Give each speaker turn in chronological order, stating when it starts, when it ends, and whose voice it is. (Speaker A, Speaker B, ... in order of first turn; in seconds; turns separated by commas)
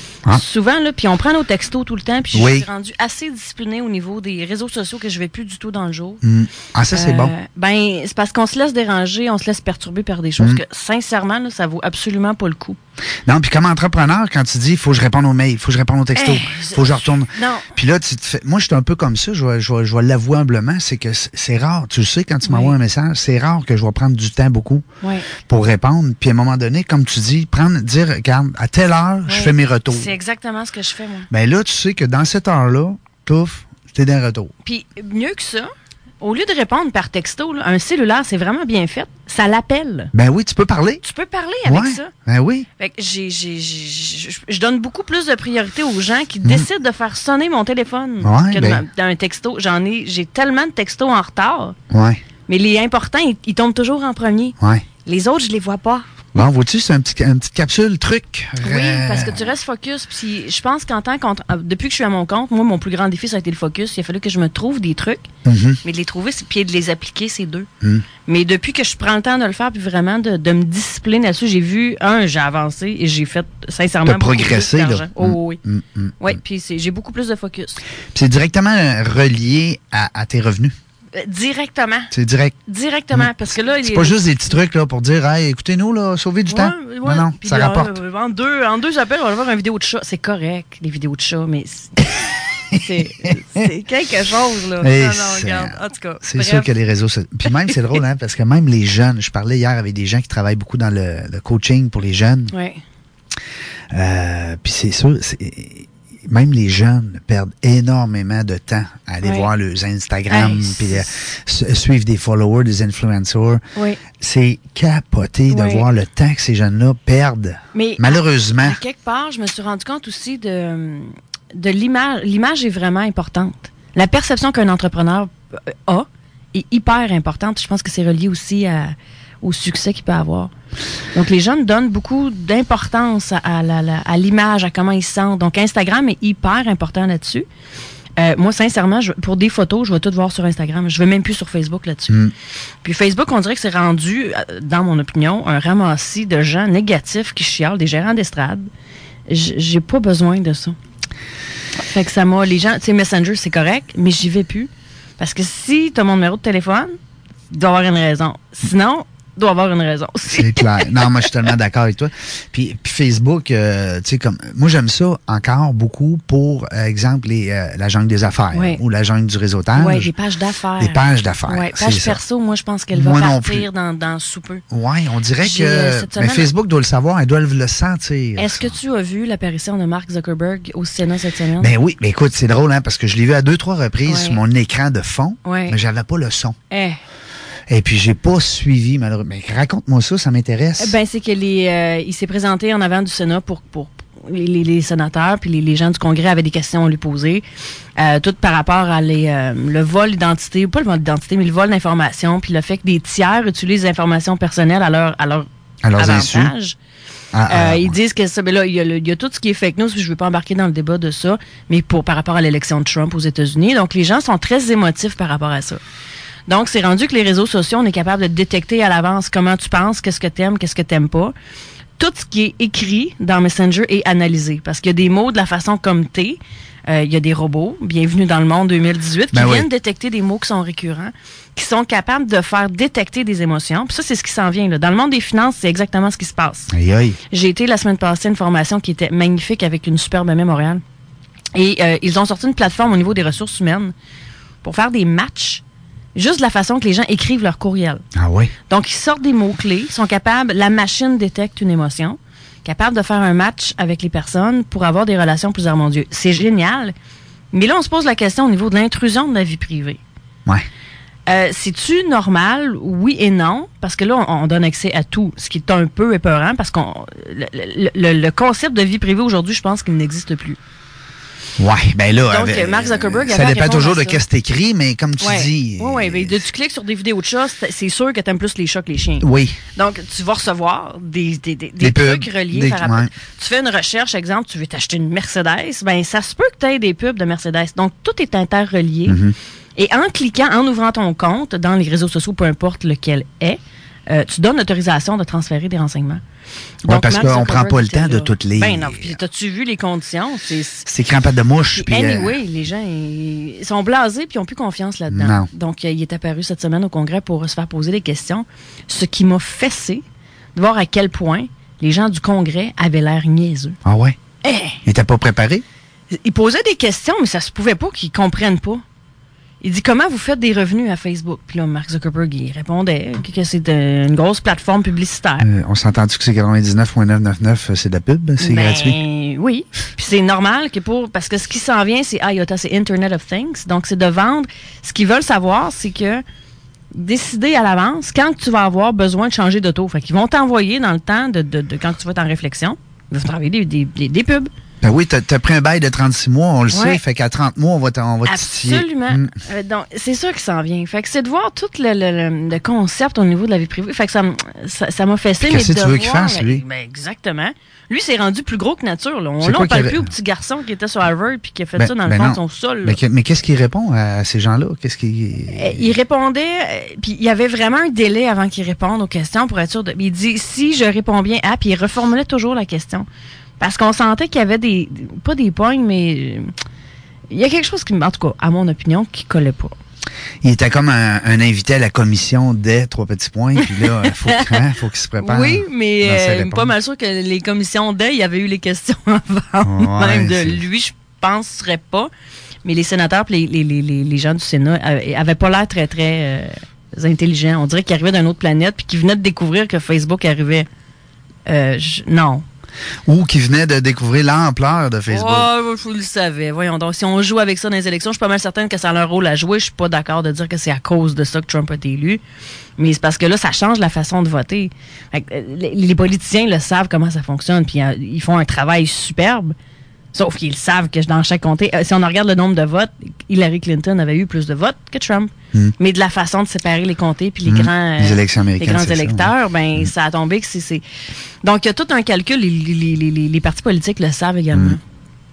Speaker A: 0.3-6.2, Speaker B: 2.3-2.7, Speaker B: 6.2-7.3, Speaker A: 6.9-12.8, Speaker B: 13.2-24.8, Speaker A: 16.1-17.7, Speaker A: 22.4-22.8, Speaker A: 25.0-25.3, Speaker B: 25.4-30.1, Speaker A: 29.3-31.3, Speaker B: 31.3-34.5, Speaker A: 34.6-40.1, Speaker B: 40.1-41.0, Speaker A: 41.0-42.1, Speaker B: 41.6-42.7, Speaker A: 42.8-51.8, Speaker B: 48.2-48.8, Speaker B: 51.9-52.2, Speaker A: 52.5-56.0, Speaker B: 54.6-54.8, Speaker B: 56.3-59.5, Speaker A: 58.6-65.3, Speaker B: 65.4-65.8, Speaker A: 65.8-67.7, Speaker B: 67.8-68.0, Speaker A: 68.3-75.6, Speaker B: 74.0-76.3, Speaker A: 76.2-77.8, Speaker B: 78.1-80.7, Speaker A: 81.1-82.1, Speaker B: 82.1-82.5, Speaker A: 82.7-84.2, Speaker B: 83.1-88.0, Speaker A: 86.5-92.1, Speaker A: 92.7-96.7, Speaker B: 94.8-102.5, Speaker A: 97.5-97.7, Speaker A: 102.5-102.8, Speaker B: 103.9-113.6, Speaker A: 109.2-109.5, Speaker A: 110.3-111.0, Speaker A: 113.7-114.0, Speaker B: 114.2-118.8, Speaker A: 115.5-115.8, Speaker A: 117.7-130.5, Speaker A: 131.1-137.4, Speaker A: 138.2-142.2, Speaker A: 142.8-148.7, Speaker A: 149.3-150.8, Speaker A: 151.8-156.9, Speaker A: 157.5-161.2, Speaker B: 160.3-170.1, Speaker A: 168.5-168.8, Speaker A: 169.8-174.6, Speaker B: 170.8-172.2, Speaker B: 172.9-173.6, Speaker B: 174.7-178.7, Speaker A: 175.4-176.5, Speaker A: 178.4-181.7, Speaker B: 181.6-186.6, Speaker A: 184.1-184.4, Speaker A: 185.4-185.8, Speaker A: 186.7-187.0, Speaker B: 187.7-190.9, Speaker A: 190.8-197.4, Speaker A: 198.0-206.8, Speaker B: 205.8-206.5, Speaker B: 207.3-207.9, Speaker A: 207.5-215.8, Speaker A: 216.5-221.3, Speaker A: 222.0-236.7, Speaker B: 229.3-229.7, Speaker B: 236.7-237.2, Speaker A: 237.3-240.8, Speaker A: 241.5-243.9, Speaker A: 244.6-245.6, Speaker A: 246.1-248.0, Speaker B: 248.1-248.5, Speaker A: 248.7-256.9, Speaker A: 257.5-260.0, Speaker A: 261.3-270.6, Speaker B: 271.6-276.4, Speaker A: 272.3-274.2, Speaker A: 275.2-289.2, Speaker B: 279.2-279.6, Speaker B: 281.8-283.1, Speaker B: 289.1-289.3, Speaker A: 289.8-296.2, Speaker B: 296.9-299.2, Speaker A: 296.9-300.9, Speaker B: 300.9-302.4, Speaker A: 301.7-310.0, Speaker B: 305.1-305.5, Speaker A: 310.5-313.8, Speaker B: 313.8-314.2, Speaker A: 314.4-314.8, Speaker B: 314.8-315.6, Speaker A: 316.1-318.8, Speaker A: 319.6-325.4, Speaker B: 325.4-329.0, Speaker A: 328.4-336.2, Speaker A: 336.9-344.5, Speaker B: 344.8-349.3, Speaker A: 346.7-347.0, Speaker A: 348.2-363.0, Speaker B: 355.4-356.6, Speaker B: 359.4-360.1, Speaker B: 361.8-365.9, Speaker A: 365.5-373.1, Speaker A: 373.6-376.5, Speaker A: 377.3-379.8, Speaker B: 380.4-386.7, Speaker A: 383.6-384.6, Speaker A: 385.2-392.1, Speaker B: 389.6-390.6, Speaker A: 392.6-400.7, Speaker A: 401.4-402.4, Speaker B: 403.1-405.5, Speaker A: 405.1-412.2, Speaker A: 412.8-419.5, Speaker A: 420.1-430.8, Speaker B: 427.4-429.9, Speaker A: 431.4-434.8, Speaker B: 434.5-434.8